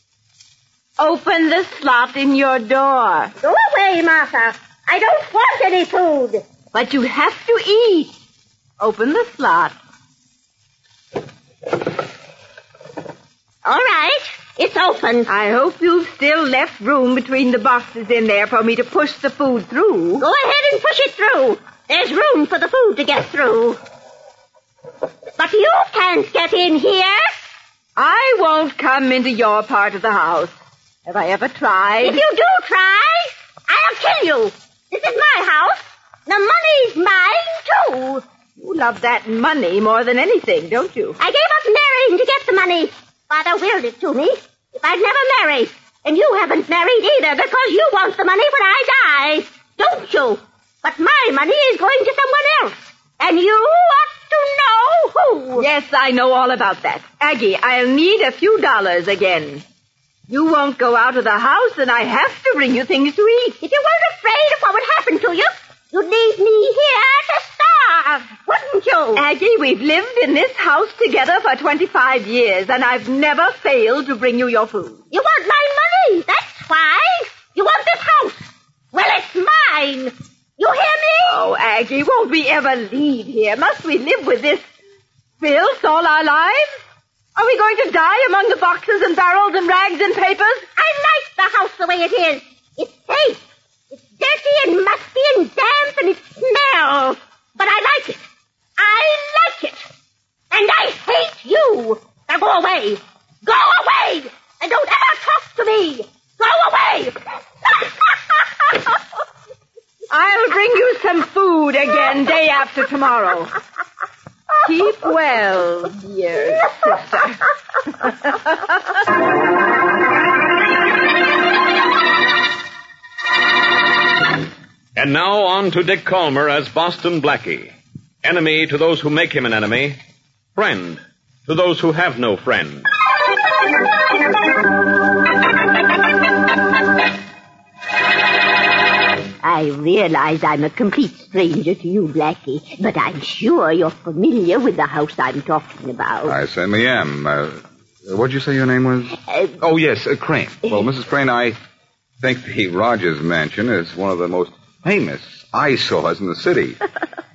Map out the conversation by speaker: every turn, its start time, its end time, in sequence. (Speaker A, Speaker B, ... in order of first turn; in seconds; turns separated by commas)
Speaker A: 1.0-3.3, Speaker B: 3.4-6.4, Speaker A: 6.7-8.1, Speaker A: 8.8-9.7, Speaker B: 13.6-15.3, Speaker A: 15.3-20.2, Speaker B: 20.2-23.8, Speaker B: 25.4-27.3, Speaker A: 28.0-30.5, Speaker A: 31.1-32.2, Speaker B: 32.0-38.2, Speaker A: 38.6-41.1, Speaker B: 41.2-55.6, Speaker A: 55.5-59.6, Speaker A: 60.3-63.5, Speaker B: 63.6-69.2, Speaker A: 69.1-75.0, Speaker B: 75.1-81.4, Speaker A: 81.2-84.6, Speaker A: 85.4-86.8, Speaker A: 87.3-90.7, Speaker B: 90.7-98.2, Speaker B: 98.8-99.8, Speaker B: 100.5-107.2, Speaker A: 110.1-113.5, Speaker A: 114.6-117.3, Speaker C: 125.0-127.7, Speaker C: 128.2-129.9, Speaker C: 130.6-132.8, Speaker B: 139.4-146.3, Speaker D: 146.2-151.6, Speaker D: 152.2-156.8